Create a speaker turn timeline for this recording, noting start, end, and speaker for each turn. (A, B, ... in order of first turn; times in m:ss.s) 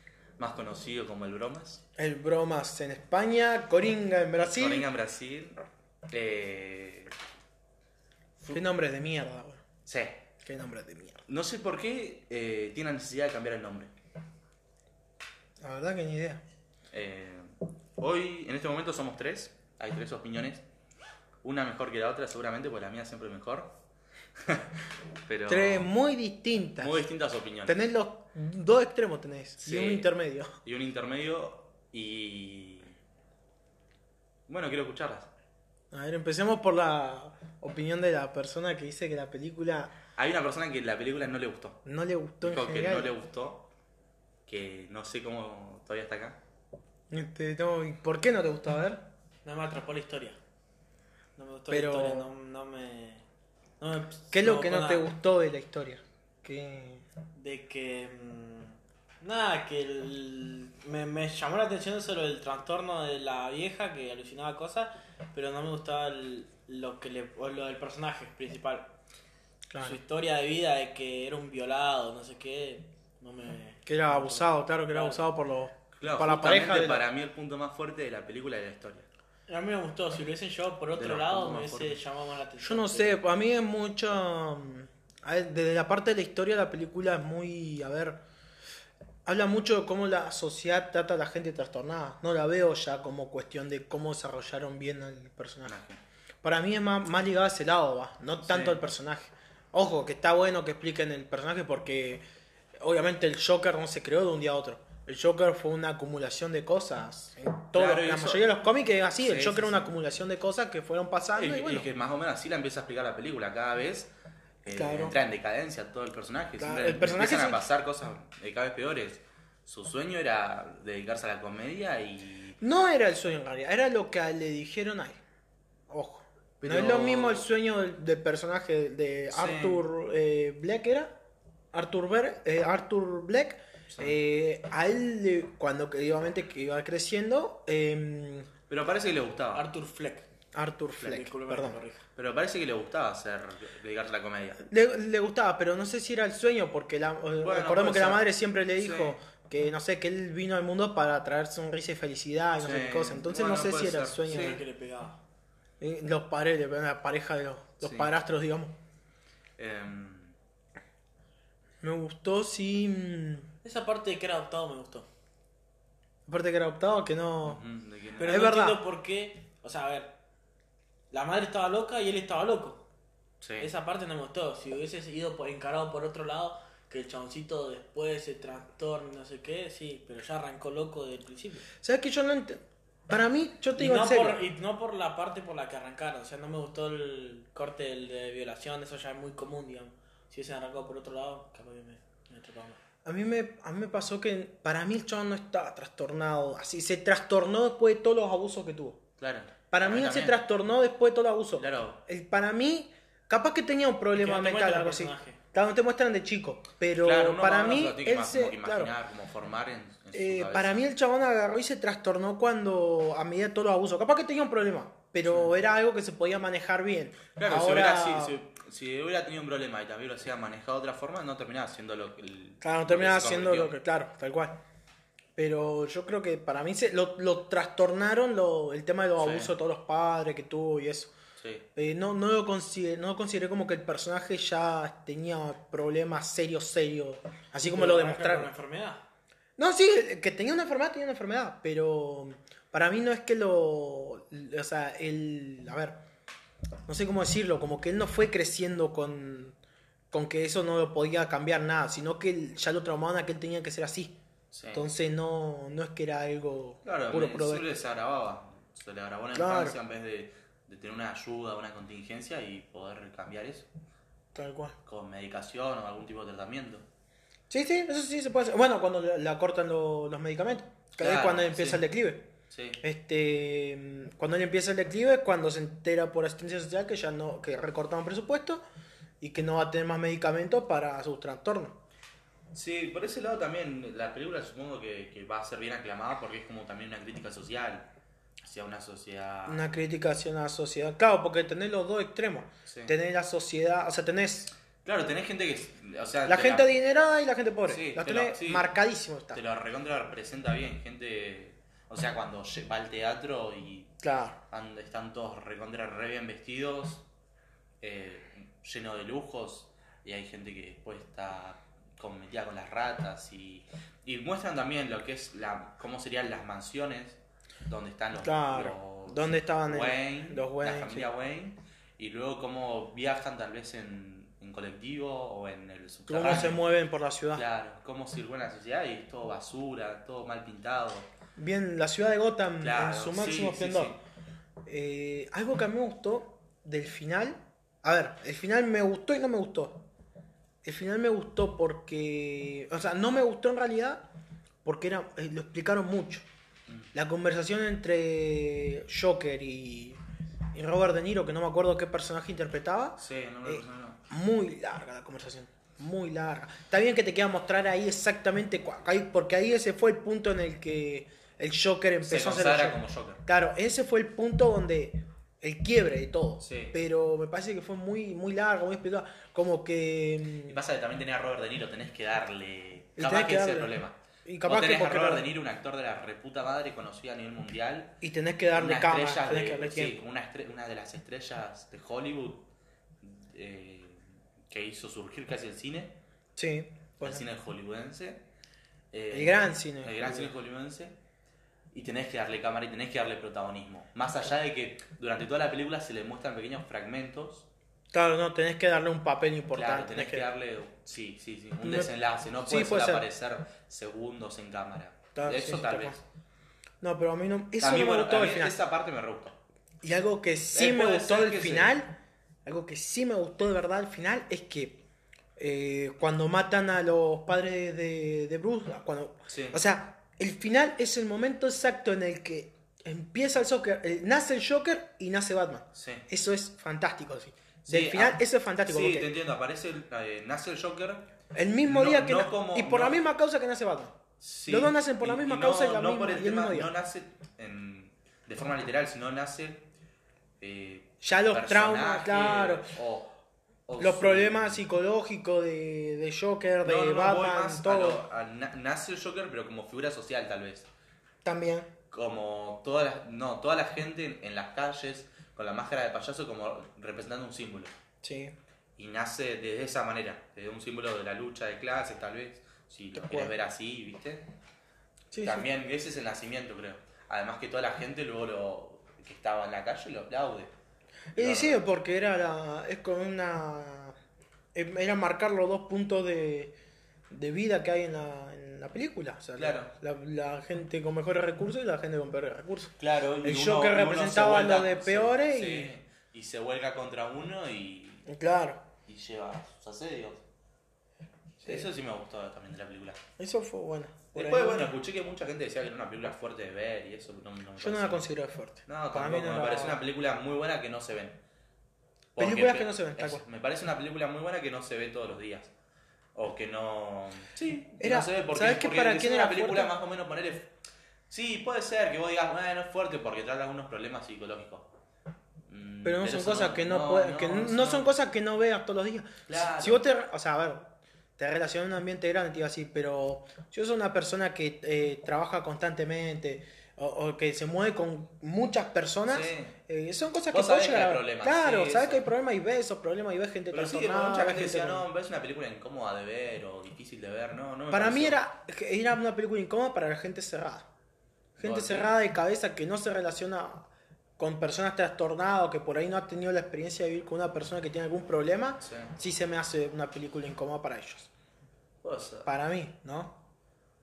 0:00.4-0:01.8 A
0:02.0-0:04.8 B
0:04.4-0:07.1 A
0:08.5-0:09.6 B
0:09.8-0:10.2 A
0:10.4-0:11.2 B
0:11.3-0:13.9 A
0:15.6-0:16.4 B
0:16.9-0:20.6 A
0:21.4-0:23.8 A
0:24.4-0:25.9 A
0:25.5-0:27.0 B
0:26.8-0:27.8 A
0:27.6-0:30.5 B
0:29.6-0:30.1 A
0:30.6-0:33.0 A
0:34.5-0:35.3 A
0:35.9-0:39.9 B
0:40.2-0:41.8 A
0:41.8-0:43.1 B
0:42.4-0:43.7 A
0:44.4-0:46.4 A
0:47.1-0:49.0 B
0:49.4-0:50.4 C
0:51.4-0:53.2 C
0:51.7-0:52.3 B
0:53.8-0:55.0 C
0:54.3-0:57.0 B
0:57.4-1:08.9 C
1:09.7-1:10.0 B
1:09.8-1:15.2 C
1:13.9-1:17.0 B
1:16.0-1:19.1 A
1:19.5-1:23.2 C
1:21.0-1:22.0 A
1:22.6-1:28.2 B
1:29.2-1:35.8 B
1:35.6-1:36.0 A
1:36.4-1:42.2 B
1:38.4-1:38.8 A
1:42.8-1:51.9 B
1:47.7-1:48.4 A
1:49.2-1:49.9 A
1:51.3-1:54.1 A
1:54.6-2:02.6 A
1:54.7-1:55.2 B
1:56.6-1:57.6 B
2:02.6-2:05.2 B
2:05.9-2:11.1 B
2:06.6-2:07.5 A
2:09.3-2:09.8 A
2:11.7-2:18.5 B
2:13.9-2:14.2 A
2:18.7-2:19.6 A
2:19.5-2:20.3 C
2:20.5-2:21.8 B
2:21.0-2:22.0 C
2:22.2-2:24.6 A
2:24.6-2:34.6 B
2:27.4-2:28.2 A
2:28.8-2:29.2 A
2:32.6-2:34.6 A
2:34.2-2:35.2 C
2:35.8-2:38.8 B
2:37.8-2:38.1 A
2:39.6-2:40.4 A
2:41.8-2:43.5 B
2:43.6-2:45.1 C
2:46.3-2:47.6 B
2:47.4-2:48.4 A
2:48.2-2:50.2 C
2:48.2-2:48.8 B
2:51.1-2:52.8 C
2:53.4-2:53.7 A
2:53.6-3:01.6 C
3:01.8-3:04.4 B
3:03.7-3:12.8 C
3:13.0-3:19.0 B
3:19.2-3:20.4 A
3:19.7-3:28.9 B
3:21.6-3:22.0 A
3:24.2-3:25.4 C
3:27.0-3:30.9 A
3:30.1-3:38.4 B
3:35.2-3:35.5 A
3:37.4-3:43.8 A
3:42.6-3:44.6 B
3:45.4-3:51.1 B
3:49.2-3:49.5 A
3:51.4-3:51.6 A
3:51.8-3:58.5 B
3:57.6-3:59.0 C
3:59.6-4:06.0 B
4:06.9-4:09.6 B
4:10.1-4:14.2 B
4:14.5-4:14.8 A
4:14.7-4:17.7 B
4:16.8-4:23.7 A
4:19.3-4:19.8 B
4:24.3-4:24.8 B
4:24.8-4:26.9 A
4:27.5-4:32.3 B
4:31.0-4:31.8 A
4:32.5-4:32.8 A
4:32.8-4:38.6 B
4:39.2-4:41.8 B
4:42.5-4:47.9 A
4:48.4-4:49.6 A
4:49.5-4:54.5 B
4:52.6-4:53.0 A
4:54.8-4:56.7 A
4:56.2-4:59.4 B
4:57.7-4:58.7 A
4:59.3-5:03.9 A
5:04.0-5:04.4 B
5:04.5-5:07.0 A
5:07.8-5:26.7 A
5:18.2-5:21.1 B
5:26.1-5:27.4 B
5:27.3-5:31.1 A
5:31.4-5:33.9 B
5:32.6-5:34.0 A
5:34.6-5:39.8 B
5:40.6-5:44.0 B
5:44.6-5:46.3 B
5:46.9-5:50.0 B
5:50.5-6:10.6 B
5:53.0-5:54.0 A
6:02.0-6:03.2 A
6:06.4-6:06.7 A
6:10.5-6:18.0 A
6:13.0-6:13.7 B
6:14.2-6:15.3 B
6:18.0-6:20.0 B
6:18.5-6:22.5 A
6:23.0-6:26.0 A
6:26.4-6:27.2 B
6:27.0-6:28.2 A
6:28.9-6:31.0 A
6:29.1-6:30.3 B
6:31.7-6:37.5 A
6:37.9-6:40.3 B
6:39.5-6:46.0 A
6:41.6-6:43.0 B
6:45.1-6:46.0 B
6:46.8-6:48.6 B
6:47.6-6:49.4 A
6:49.8-6:54.8 B
6:50.5-6:51.8 A
6:55.4-7:09.1 B
6:59.3-6:59.6 A
7:05.7-7:06.1 A
7:07.6-7:11.1 A
7:11.3-7:14.0 B
7:11.6-7:13.0 A
7:14.2-7:19.7 A
7:14.5-7:16.7 B
7:20.4-7:24.6 A
7:21.0-7:22.7 B
7:23.8-7:28.0 B
7:26.6-7:30.7 A
7:31.2-7:31.7 B
7:31.9-7:37.7 A
7:38.0-7:38.4 B
7:38.8-7:44.3 A
7:43.0-7:43.3 B
7:45.1-7:45.5 B
7:45.2-7:50.5 A
7:51.1-7:54.0 B
7:51.1-7:51.6 A
7:54.5-7:56.6 B
7:57.1-8:05.7 B
7:59.4-7:59.7 A
8:02.8-8:08.1 A
8:08.0-8:08.6 B
8:08.8-8:10.2 A
8:11.4-8:11.7 B
8:11.4-8:13.0 A
8:13.2-8:14.7 B
8:14.1-8:18.1 A
8:17.6-8:19.8 B
8:18.6-8:21.2 A
8:22.1-8:25.5 A
8:22.2-8:23.2 B
8:26.1-8:30.5 A
8:27.8-8:29.7 B
8:31.1-8:34.7 A
8:35.5-8:37.9 A
8:35.8-8:54.8 B
8:39.3-8:39.8 A
8:49.1-8:49.6 A
8:50.3-8:52.0 A
8:53.5-8:58.2 A
8:57.7-9:00.7 B
9:01.4-9:11.1 B
9:01.4-9:01.9 A
9:08.6-9:08.9 A
9:11.8-9:12.3 A
9:12.2-9:13.2 B